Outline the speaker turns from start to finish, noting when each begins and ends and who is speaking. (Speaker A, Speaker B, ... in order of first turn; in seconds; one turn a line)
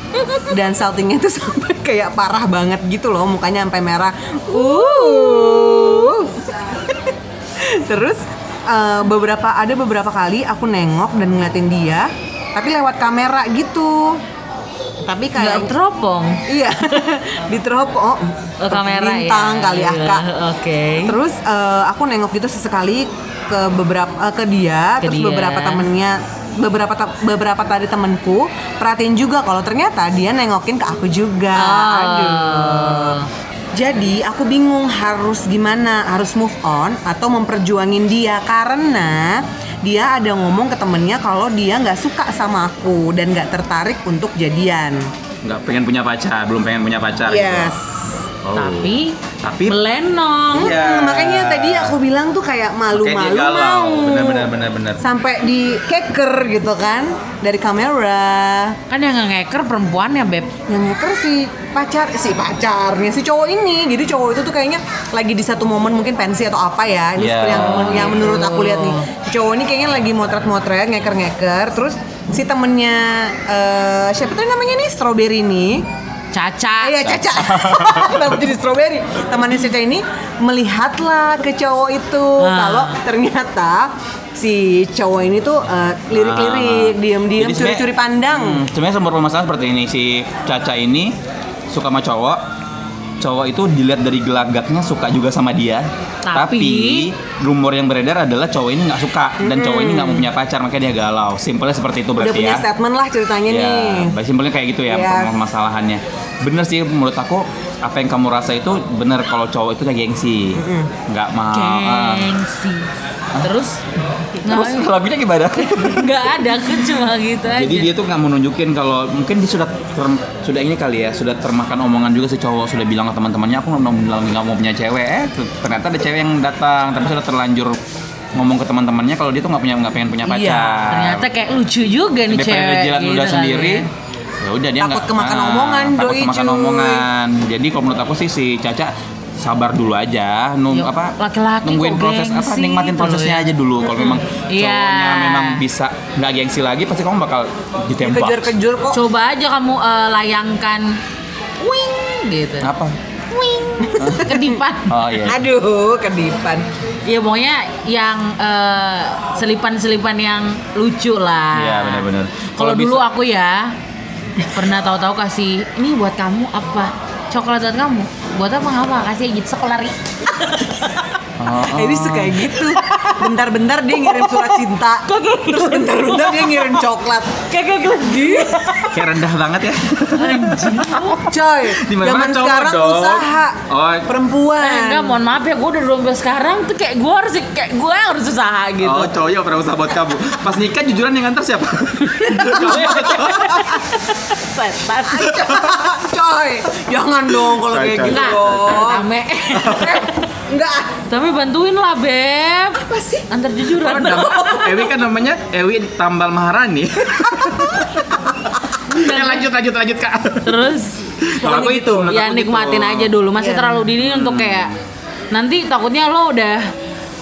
Speaker A: 0.2-0.5
Speaker B: 0.5-14.2
Speaker A: 4.5-6.2
Speaker B: 15.0-15.7
Speaker A: 15.3-16.4
Speaker B: 16.5-20.2
Speaker A: 18.6-21.2
Speaker B: 21.0-33.2
Speaker A: 25.0-25.9
Speaker A: 31.5-33.3
Speaker B: 33.7-45.1
Speaker C: 45.4-47.8
Speaker B: 47.2-47.9
Speaker C: 48.4-49.8
Speaker A: 48.5-50.7
Speaker B: 50.5-58.8
Speaker C: 50.5-52.0
Speaker C: 52.9-55.0
Speaker A: 58.9-60.5
Speaker B: 60.7-75.9
Speaker C: 67.2-68.3
Speaker A: 67.5-69.1
Speaker A: 76.3-77.1
Speaker B: 76.8-88.6
Speaker C: 77.0-78.3
Speaker A: 82.4-83.0
Speaker C: 86.1-91.1
Speaker C: 91.7-92.4
Speaker C: 93.2-102.6
Speaker A: 96.2-97.1
Speaker B: 99.4-100.3
Speaker B: 102.2-104.1
Speaker C: 103.5-112.3
Speaker B: 104.9-105.3
Speaker B: 110.5-110.9
Speaker A: 111.5-112.9
Speaker A: 113.4-113.8
Speaker A: 114.4-114.9
Speaker C: 114.5-116.7
Speaker A: 115.5-117.9
Speaker C: 117.5-127.8
Speaker C: 128.3-131.3
Speaker B: 130.2-130.9
Speaker A: 130.9-133.9
Speaker C: 132.3-133.8
Speaker C: 134.4-148.5
Speaker B: 134.8-137.0
Speaker A: 140.7-145.6
Speaker B: 148.0-149.0
Speaker A: 148.9-151.0
Speaker A: 151.6-152.7
Speaker C: 152.6-152.9
Speaker A: 153.3-154.9
Speaker B: 153.8-154.6
Speaker C: 154.0-155.5
Speaker B: 155.2-156.7
Speaker A: 157.1-162.0
Speaker C: 161.5-163.0
Speaker A: 162.6-163.7
Speaker A: 164.4-171.1
Speaker C: 171.4-172.5
Speaker B: 171.7-178.7
Speaker A: 172.8-173.2
Speaker A: 174.0-176.8
Speaker A: 177.5-179.0
Speaker C: 178.8-184.1
Speaker A: 180.1-181.2
Speaker B: 181.1-185.2
Speaker A: 184.6-189.1
Speaker C: 188.8-193.8
Speaker A: 192.1-195.4
Speaker B: 192.2-193.3
Speaker B: 195.1-201.0
Speaker C: 195.3-195.8
Speaker C: 197.5-199.0
Speaker A: 198.0-200.2
Speaker C: 199.5-200.0
Speaker A: 201.1-204.9
Speaker B: 202.8-203.3
Speaker C: 203.7-208.4
Speaker A: 208.9-209.4
Speaker C: 208.9-210.7
Speaker A: 210.4-214.7
Speaker C: 211.2-213.1
Speaker B: 213.4-213.9
Speaker C: 214.0-214.8
Speaker A: 215.3-216.7